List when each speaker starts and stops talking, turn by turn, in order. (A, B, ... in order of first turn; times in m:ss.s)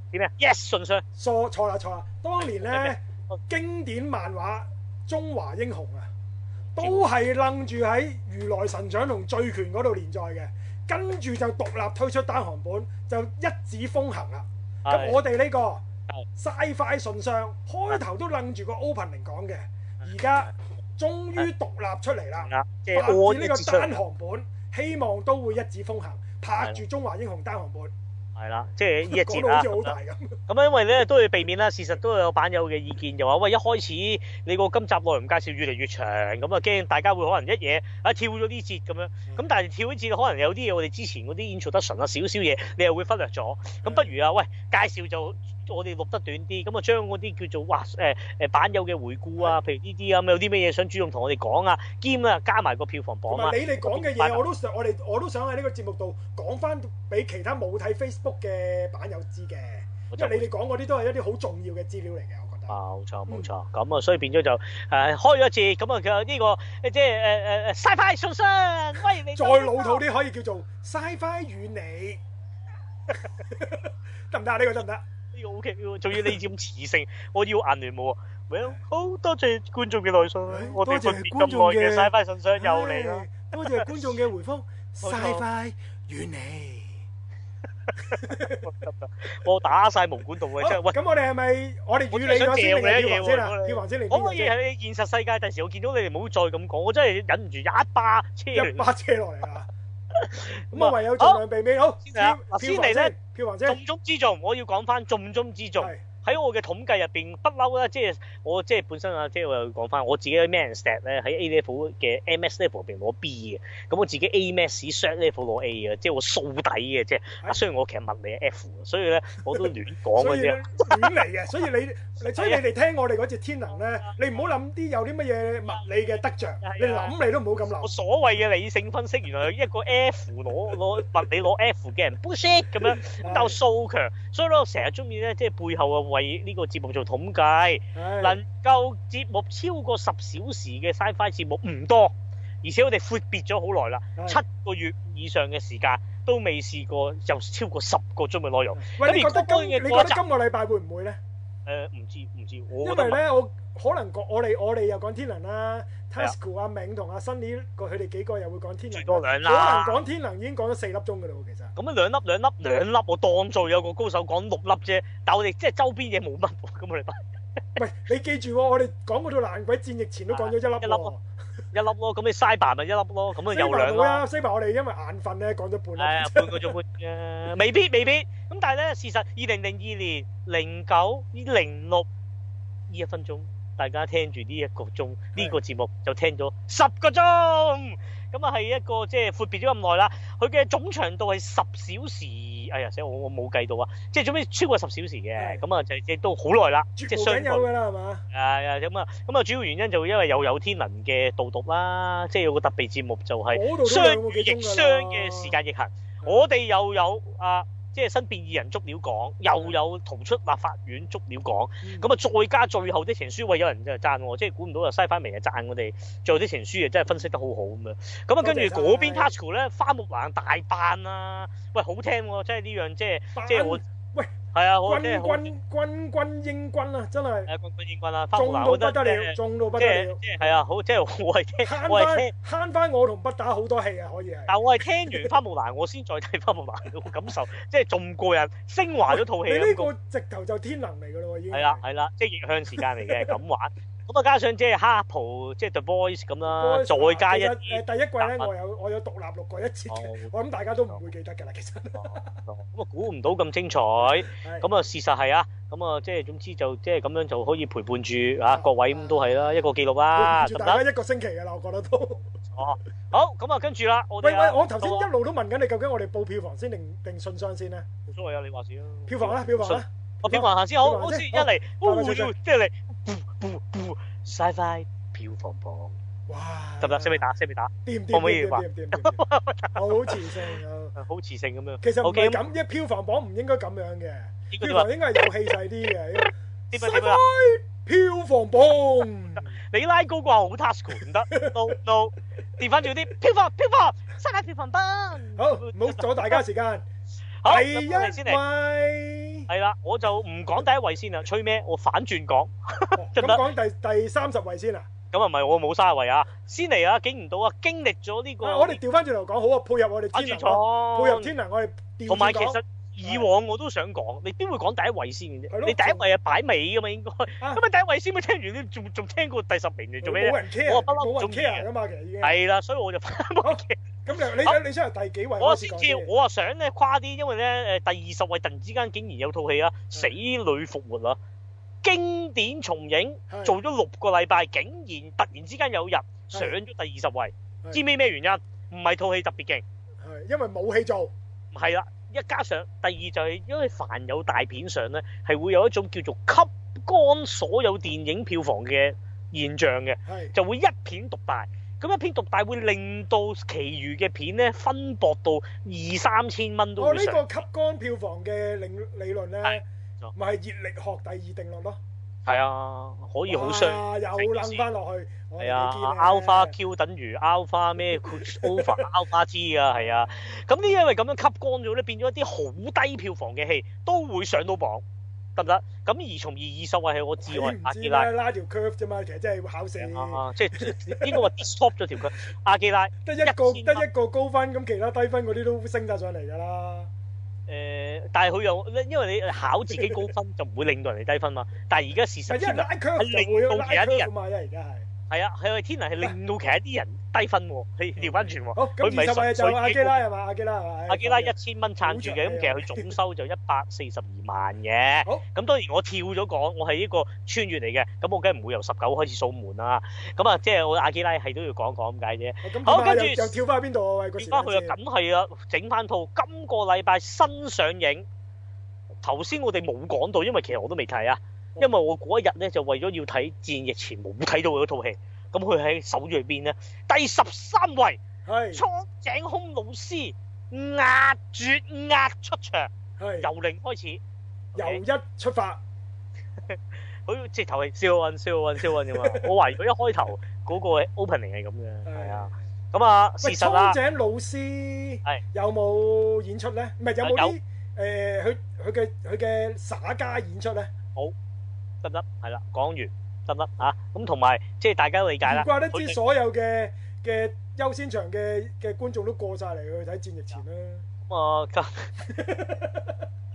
0:00.1-0:01.0 A
0:01.2-0:06.1 B
0:02.4-0:03.4 A
0:06.8-0:07.0 A
0:06.8-0:15.8 B
0:14.8-0:15.2 A
0:16.4-0:27.9 B
0:22.4-0:23.9 A
0:28.4-0:29.9 A
0:29.0-0:30.4 B
0:30.5-0:54.4 A
0:43.8-0:44.1 B
0:53.3-1:02.8 B
1:00.1-1:00.5 A
1:02.7-1:10.0 A
1:09.3-1:12.2 B
1:13.2-1:15.0 B
1:15.3-1:24.0 A
1:20.5-1:27.0 B
1:25.0-1:25.4 A
1:28.0-1:31.0 A
1:28.1-1:28.7 B
1:30.6-1:34.5 B
1:32.1-1:38.8 A
1:38.5-1:39.7 B
1:40.1-1:41.4 A
1:40.7-1:43.8 B
1:42.0-1:43.1 A
1:43.7-2:01.1 A
1:59.5-2:07.9 B
2:02.3-2:02.6 A
2:04.0-2:04.5 A
2:06.6-2:07.1 A
2:07.8-2:30.2 A
2:12.8-2:13.6 B
2:17.9-2:18.4 B
2:24.2-2:24.4 B
2:28.8-2:31.2 B
2:31.6-2:33.2 A
2:32.8-2:41.7 B
2:38.9-2:40.0 A
2:41.8-2:47.2 A
2:47.8-2:51.2 B
2:50.3-2:51.1 A
2:51.7-2:54.2 A
2:53.4-2:56.7 B
2:56.0-3:02.1 A
3:02.9-3:17.7 A
3:17.0-3:18.2 B
3:18.3-3:43.8 A
3:23.5-3:25.6 B
3:31.8-3:32.1 B
3:38.4-3:39.3 B
3:43.4-3:44.3 B
3:44.5-3:45.5 A
3:44.8-3:47.5 B
3:47.5-3:52.3 A
3:48.3-3:50.6 B
3:51.6-3:55.3 B
3:54.5-3:59.9 A
3:59.1-4:01.8 B
4:01.5-4:08.5 A
4:02.8-4:03.4 B
4:06.5-4:12.3 B
4:09.9-4:10.3 A
4:12.0-4:20.8 A
4:14.3-4:14.6 B
4:18.5-4:22.2 B
4:22.5-4:25.1 A
4:24.2-4:27.9 B
4:28.1-4:35.9 A
4:29.1-4:32.3 B
4:36.3-4:37.2 B
4:36.8-4:42.4 A
4:37.8-4:39.2 B
4:39.7-4:40.9 B
4:41.8-4:49.5 B
4:44.5-4:45.3 A
4:46.2-4:47.2 A
4:49.7-4:56.4 A
4:51.3-4:51.7 B
4:55.3-4:56.8 B
4:57.4-4:58.4 A
4:57.4-4:59.5 B
4:59.5-5:03.4 A
5:03.0-5:04.9 B
5:05.1-5:08.8 A
5:08.4-5:13.3 B
5:10.1-5:11.3 A
5:12.1-5:21.7 A
5:15.5-5:16.0 B
5:20.0-5:22.4 B
5:22.2-5:24.6 A
5:23.4-5:26.1 B
5:25.4-5:31.2 A
5:31.8-5:39.6 A
5:33.3-5:33.6 B
5:40.0-5:41.1 B
5:41.5-5:57.2 A
5:50.1-5:50.3 B
5:56.8-6:01.8 B
5:59.4-6:00.1 A
6:02.2-6:04.6 A
6:03.3-6:06.5 B
6:05.4-6:14.8 A
6:07.9-6:08.9 B
6:09.7-6:10.2 B
6:15.4-6:18.1 A
6:17.2-6:21.3 B
6:19.8-6:23.8 A
6:23.0-6:26.9 B
6:27.5-6:34.1 A
6:29.7-6:30.0 B
6:32.3-6:34.9 B
6:35.1-6:40.0 A
6:38.0-6:43.0 B
6:40.9-6:53.3 A
6:52.4-6:54.8 B
6:54.2-6:58.1 A
6:59.0-7:08.0 A
7:08.2-7:08.6 B
7:08.5-7:14.0 A
7:13.0-7:13.3 B
7:14.5-7:14.8 A
7:14.5-7:15.6 B
7:16.5-7:23.8 A
7:18.6-7:19.3 B
7:21.8-7:22.3 B
7:23.2-7:30.7 B
7:27.0-7:27.3 A
7:31.8-7:36.0 A
7:35.2-7:40.8 B
7:41.1-7:41.9 A
7:42.0-7:43.0 B